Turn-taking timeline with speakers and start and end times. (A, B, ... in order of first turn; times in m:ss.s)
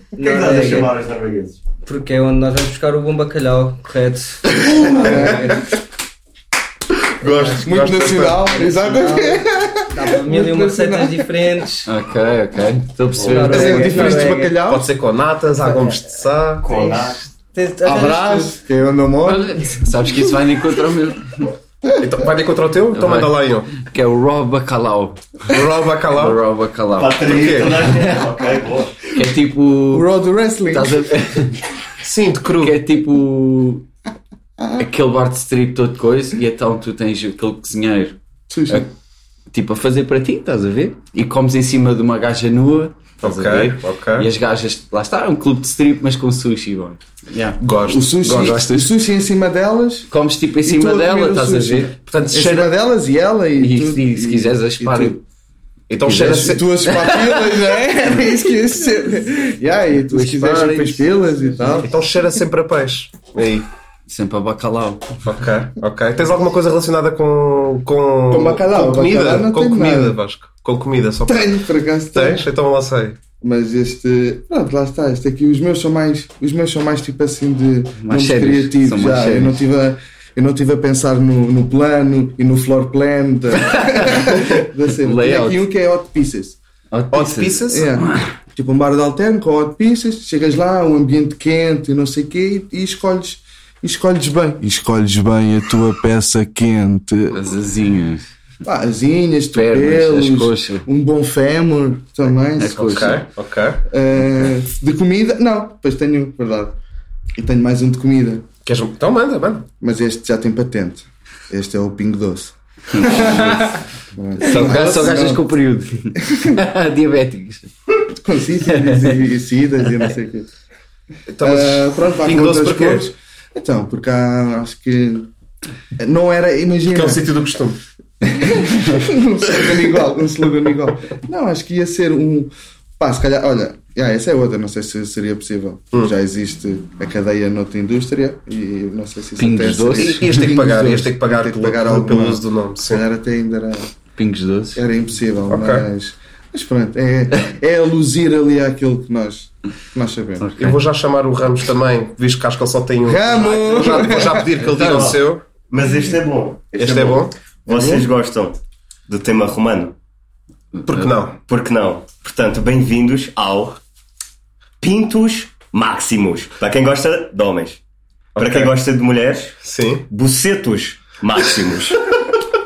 0:00.1-0:00.9 A
0:00.2-0:01.6 B
0:01.8-0:05.6 A
0:04.7-0:05.2 C
0:04.9-0:05.6 D
0:07.2-0:08.7 C
0:07.5-0:11.3 D
0:08.5-0:11.9 A
0:11.8-0:14.2 E
0:13.2-0:14.6 A
0:13.5-0:14.9 D
0:14.0-0:16.7 C
0:16.6-0:17.2 B
0:16.8-0:17.1 D
0:17.5-0:18.6 A
0:17.8-0:19.7 D
0:19.2-0:21.5 E
0:22.0-0:23.8 C
0:22.9-0:25.5 E
0:25.5-0:26.4 C
0:26.1-0:28.1 E
0:27.0-0:29.1 B
0:27.2-0:27.8 C
0:29.1-0:30.1 E
0:29.9-0:31.2 D
0:30.7-0:31.6 E
0:32.0-0:32.8 C
0:32.6-0:33.8 E
0:34.6-0:34.8 D
0:34.8-0:38.2 E
0:38.5-0:38.8 D
0:39.5-0:47.6 E
0:43.2-0:44.3 C
0:47.6-0:48.8 C
0:47.8-0:50.1 D
0:48.2-0:48.9 E
0:50.1-0:51.9 E
0:50.6-0:55.2 D
0:52.1-0:52.7 C
0:53.6-0:55.2 E
0:55.9-0:56.6 C
0:56.0-0:57.6 E
0:56.1-1:01.9 D
1:00.1-1:01.9 E
1:01.9-1:03.7 C
1:04.1-1:05.1 E
1:05.2-1:11.5 C
1:08.3-1:10.2 D
1:11.3-1:12.5 D
1:12.1-1:13.2 C
1:13.4-1:26.6 D
1:18.0-1:19.6 E
1:23.6-1:25.6 E
1:26.9-1:28.2 E
1:27.1-1:27.9 C
1:27.7-1:37.4 D
1:37.3-1:38.3 E
1:38.6-1:43.0 D
1:39.5-1:40.8 E
1:42.6-1:43.2 E
1:42.7-1:43.8 C
1:43.9-1:46.8 D
1:47.4-1:48.5 D
1:48.6-1:49.7 C
1:49.8-1:55.5 D
1:52.9-1:53.8 E
1:54.4-1:55.2 C
1:54.4-1:57.7 E
1:56.2-1:56.6 D
1:58.1-2:00.5 D
1:58.7-1:59.2 E
2:01.3-2:03.1 C
2:01.4-2:05.3 D
2:06.0-2:07.2 D
2:06.9-2:07.8 C
2:08.2-2:23.9 D
2:19.4-2:20.5 E
2:19.9-2:23.0 C
2:24.2-2:24.8 E
2:24.7-2:30.5 D
2:25.5-2:25.9 C
2:30.4-2:30.8 E
2:30.6-2:35.4 C
2:33.0-2:34.5 D
2:33.6-2:39.9 B
2:36.8-2:37.3 C
2:37.7-2:38.1 D
2:40.8-2:41.1 E
2:40.9-2:41.4 C
2:41.3-2:43.8 B
2:44.8-2:47.8 B
2:48.3-2:48.7 C
2:48.4-2:49.6 B
2:49.6-2:50.1 C
2:50.1-2:52.0 B